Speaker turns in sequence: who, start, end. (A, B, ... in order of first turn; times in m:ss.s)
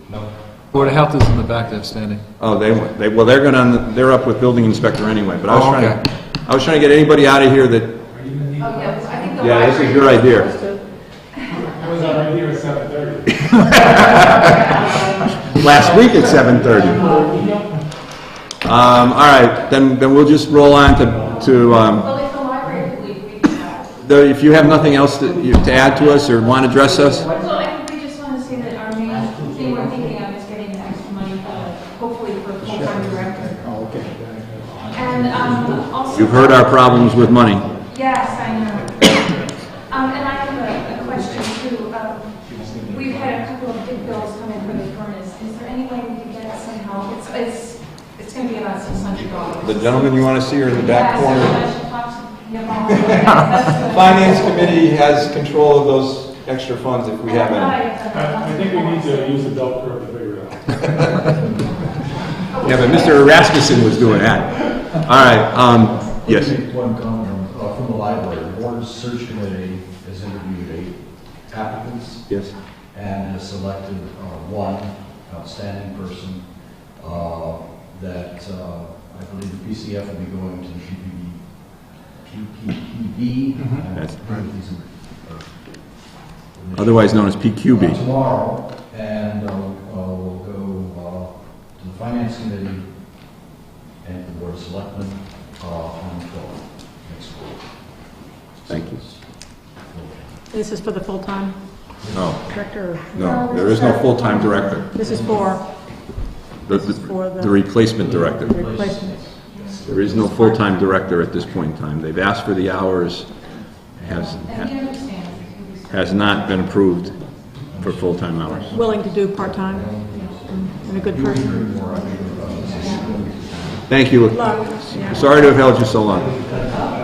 0:00.7-0:02.2 A
0:02.4-0:08.0 B
0:05.6-0:06.0 A
0:08.1-0:09.5 C
0:08.6-0:10.2 D
0:09.4-0:10.5 B
0:10.0-0:10.9 E
0:11.6-0:17.7 C
0:14.0-0:14.4 B
0:15.5-0:17.1 B
0:18.6-0:22.1 B
0:20.7-0:21.7 C
0:22.0-0:23.9 D
0:24.0-0:27.3 B
0:27.4-0:33.7 D
0:32.8-0:33.3 A
0:34.0-0:34.5 C
0:34.9-0:36.9 D
0:36.1-0:37.7 B
0:37.9-0:39.3 D
0:39.9-0:42.3 D
0:42.9-0:49.6 D
0:49.6-0:51.7 B
0:51.2-0:54.0 D
0:53.3-0:57.8 B
0:57.5-0:59.4 D
0:58.1-1:01.2 C
1:02.5-1:03.2 D
1:02.6-1:06.5 B
1:06.2-1:12.4 F
1:12.3-1:12.5 B
1:12.9-1:25.6 F
1:26.5-1:32.9 F
1:26.8-1:28.0 B
1:34.0-1:37.7 F
1:38.6-1:40.4 F
1:38.7-1:39.0 B
1:40.5-1:41.6 E
1:42.1-1:42.5 B
1:42.5-1:43.6 E
1:43.1-1:44.9 B
1:43.6-1:44.8 D
1:44.9-1:45.7 E
1:45.0-1:45.6 F
1:46.7-1:48.6 B
1:46.7-1:47.5 E
1:48.0-1:50.5 F
1:48.5-1:49.2 E
1:49.9-1:55.0 B
1:54.6-1:55.9 D
1:55.9-1:57.2 B
1:57.8-1:58.8 B
1:58.5-2:03.9 F
1:58.7-2:01.5 E
2:03.9-2:06.4 B
2:04.3-2:05.2 E